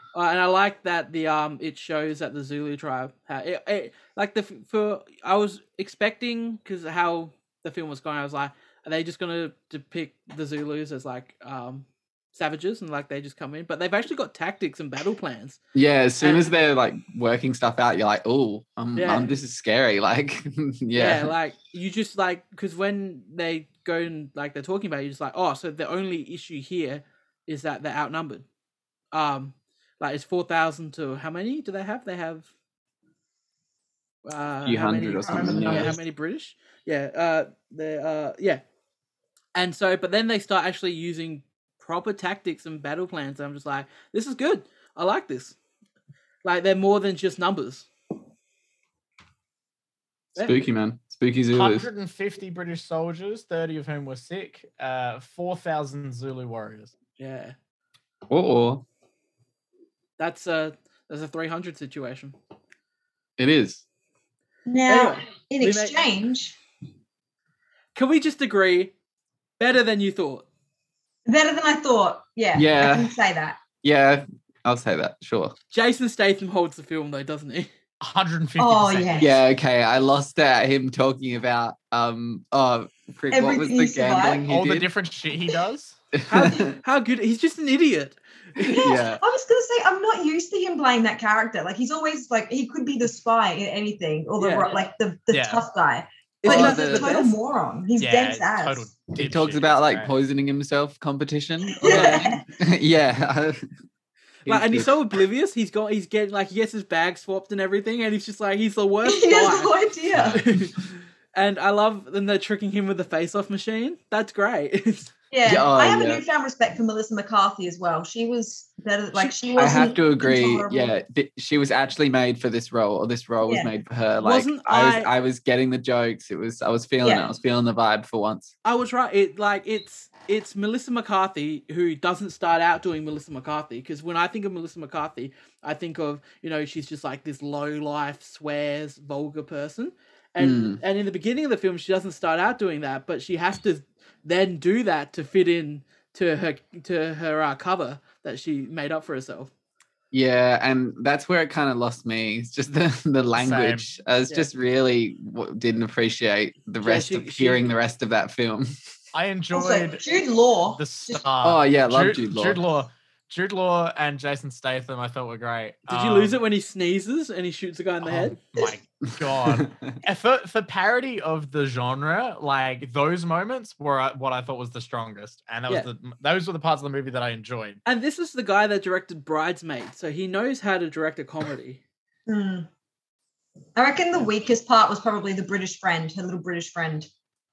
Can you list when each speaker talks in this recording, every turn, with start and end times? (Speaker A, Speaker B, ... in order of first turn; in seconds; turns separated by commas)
Speaker A: 0.1-15.6, Speaker B: 15.7-21.3, Speaker A: 16.2-16.5, Speaker A: 19.0-19.4, Speaker A: 20.9-28.4, Speaker A: 29.1-32.5, Speaker A: 34.2-38.6, Speaker B: 34.6-36.0, Speaker C: 35.2-36.0, Speaker A: 39.5-45.6, Speaker A: 46.4-47.9, Speaker A: 50.4-50.6, Speaker B: 50.4-51.9, Speaker D: 51.5-56.9, Speaker A: 57.2-57.6, Speaker B: 58.3-58.9, Speaker A: 60.2-62.4, Speaker B: 63.4-63.8, Speaker C: 64.7-66.6, Speaker A: 64.9-66.1, Speaker A: 68.0-68.9, Speaker A: 69.6-70.5, Speaker C: 71.3-73.6, Speaker B: 72.5-73.1, Speaker B: 73.8-75.5, Speaker A: 75.7-77.7, Speaker D: 78.0-79.3, Speaker C: 78.6-79.3, Speaker B: 79.2-84.9, Speaker C: 83.3-84.4, Speaker D: 84.5-86.0, Speaker B: 86.2-86.8, Speaker A: 86.3-88.9, Speaker C: 88.6-98.9, Speaker B: 88.8-89.2, Speaker A: 94.4-94.8, Speaker D: 95.3-95.7, Speaker A: 96.4-97.3, Speaker B: 96.5-97.2, Speaker D: 98.0-100.1, Speaker B: 99.2-103.7, Speaker C: 101.7-102.5, Speaker A: 101.9-102.3, Speaker B: 104.5-105.0, Speaker A: 104.5-109.7, Speaker C: 109.0-110.4, Speaker D: 110.1-110.4, Speaker A: 110.3-115.1, Speaker C: 115.3-120.9, Speaker B: 115.5-116.2, Speaker B: 119.5-128.5, Speaker C: 123.4-123.7, Speaker A: 124.2-125.1, Speaker C: 127.0-127.3, Speaker A: 128.6-149.5, Speaker B: 140.4-140.8, Speaker B: 150.1-158.8, Speaker D: 153.3-153.9, Speaker A: 156.8-157.7, Speaker D: 159.1-160.2, Speaker C: 159.5-161.2, Speaker D: 160.7-166.4, Speaker B: 161.4-162.6, Speaker A: 165.9-168.4, Speaker D: 168.0-177.8, Speaker B: 169.2-169.9, Speaker A: 177.8-181.8, Speaker C: 182.3-182.7, Speaker C: 183.8-187.1